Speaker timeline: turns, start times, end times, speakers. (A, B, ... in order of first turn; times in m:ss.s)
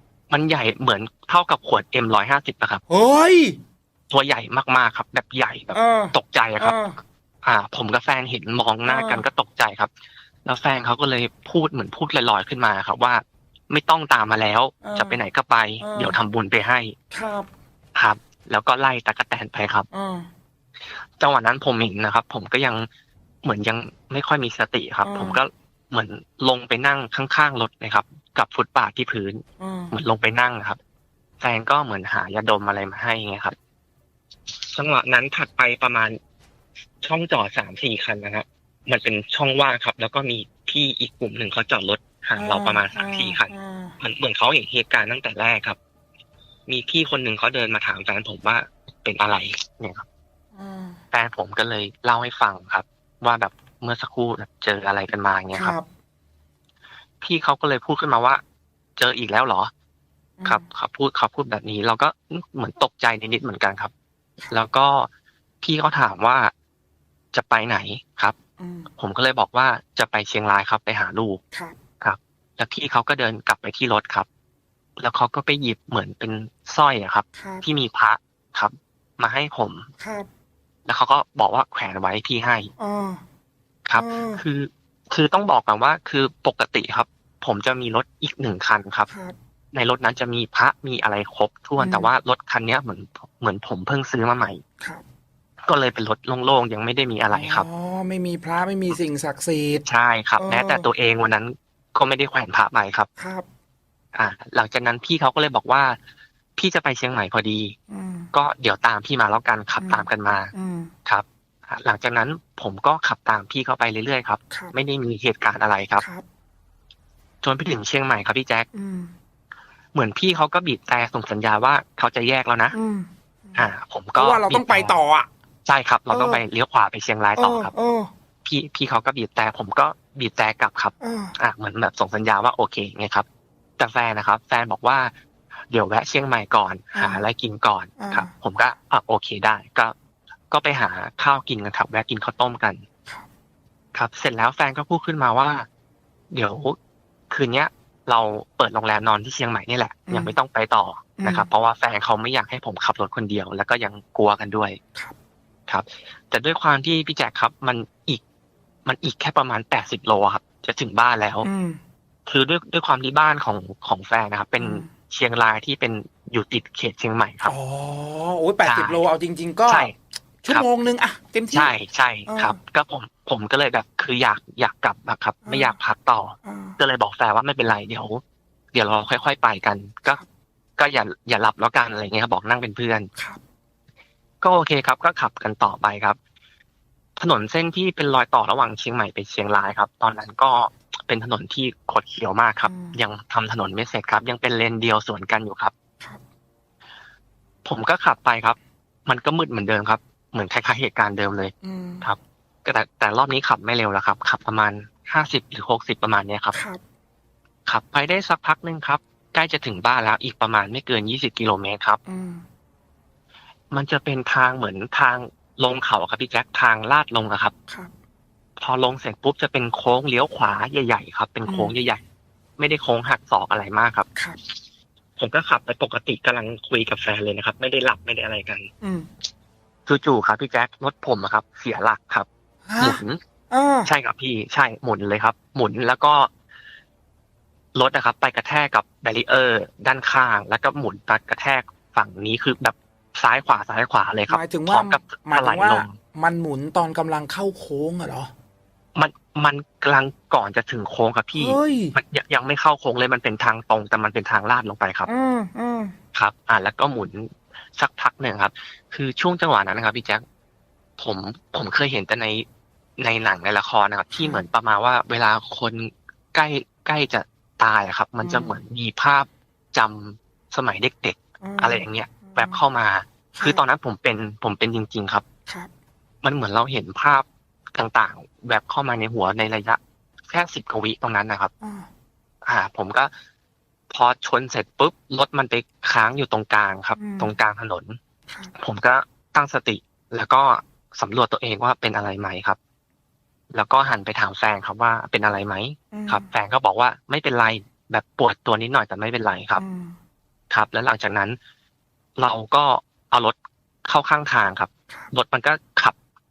0:00.3-0:02.8 A
0:02.9-0:03.6 B
0:04.1-0:06.8 A
0:05.7-0:06.9 B
0:07.4-0:09.9 A
0:08.8-0:09.2 B
0:10.4-0:16.9 A
0:14.8-0:15.2 B
0:15.8-0:16.2 B
0:17.1-0:17.5 B
0:17.9-0:19.9 A
0:19.9-0:20.3 B
0:21.2-0:22.9 A
0:23.4-0:30.8 A
0:25.0-0:25.4 B
0:29.6-0:29.9 B
0:31.4-0:33.5 A
0:34.6-0:36.2 A
0:37.0-0:45.8 A
0:42.4-0:44.0 B
0:46.7-0:50.0 A
0:50.6-0:51.0 B
0:51.1-0:55.7 A
0:55.5-0:55.8 B
0:57.2-0:58.4 A
0:59.0-0:59.7 A
1:00.4-1:00.6 B
1:00.4-1:03.9 A
1:04.5-1:05.1 A
1:05.6-1:06.5 A
1:07.3-1:08.3 A
1:08.6-1:08.9 B
1:09.0-1:11.4 A
1:12.0-1:14.3 A
1:15.0-1:19.9 A
1:17.4-1:17.6 B
1:20.0-1:20.3 B
1:20.8-1:22.7 A
1:22.8-1:23.2 B
1:23.8-1:29.1 A
1:24.0-1:24.4 B
1:29.1-1:29.3 B
1:29.7-1:34.6 A
1:31.8-1:32.1 B
1:35.6-1:37.6 A
1:37.3-1:39.8 B
1:39.8-1:43.1 A
1:40.4-1:40.8 B
1:43.2-1:43.4 B
1:44.1-1:46.0 A
1:46.6-1:47.7 A
1:47.9-1:48.3 B
1:48.3-1:50.5 A
1:49.8-1:50.9 B
1:51.0-1:56.0 A
1:56.0-1:56.2 B
1:57.4-1:58.7 A
1:58.7-1:59.1 B
1:59.9-2:02.7 A
2:02.7-2:03.6 B
2:03.5-2:05.0 A
2:04.2-2:05.3 B
2:05.7-2:07.7 A
2:06.1-2:06.4 B
2:07.4-2:08.1 B
2:08.4-2:13.2 A
2:11.0-2:11.3 B
2:13.8-2:15.1 A
2:15.7-2:19.9 A
2:16.9-2:17.2 B
2:18.0-2:18.3 B
2:20.5-2:22.8 A
2:23.9-2:25.7 A
2:26.3-2:26.8 A
2:27.3-2:34.8 A
2:30.1-2:30.3 B
2:31.2-2:31.4 B
2:35.7-2:38.2 A
2:38.8-2:41.5 A
2:41.4-2:41.8 B
2:42.3-2:47.5 A
2:44.6-2:44.9 B
2:47.4-2:49.9 B
2:48.6-2:49.0 A
2:49.7-2:49.9 A
2:50.4-2:51.7 B
2:51.5-2:58.2 A
2:52.3-2:52.6 B
2:55.4-2:55.7 B
2:56.4-2:56.8 B
2:58.7-3:00.2 A
3:00.8-3:03.1 A
3:04.4-3:06.2 A
3:07.2-3:15.7 A
3:12.6-3:13.0 B
3:17.6-3:26.6 A
3:21.6-3:22.0 B
3:26.5-3:26.8 B
3:27.6-3:32.0 A
3:32.1-3:32.4 B
3:33.7-3:37.5 A
3:38.6-3:42.0 A
3:41.4-3:41.7 B
3:42.6-3:44.0 A
3:45.2-3:48.7 A
3:48.8-3:49.1 B
3:49.8-3:52.3 A
3:52.7-3:53.9 B
3:52.8-3:53.2 A
3:53.8-3:56.3 A
3:57.7-4:05.9 A
4:04.3-4:08.3 B
4:08.9-4:15.1 A
4:11.3-4:12.0 B
4:15.1-4:15.9 B
4:16.1-4:20.2 A
4:21.0-4:22.4 A
4:23.0-4:35.2 A
4:24.1-4:24.4 B
4:28.2-4:28.6 B
4:31.4-4:32.6 B
4:33.3-4:33.6 B
4:36.2-4:41.5 A
4:41.6-4:41.9 B
4:42.4-4:43.1 A
4:43.9-4:48.0 A
4:47.0-4:47.3 B
4:48.5-4:52.6 A
4:53.5-4:59.6 A
4:55.9-4:56.3 B
4:59.6-5:00.0 B
5:00.5-5:01.4 A
5:02.2-5:05.9 A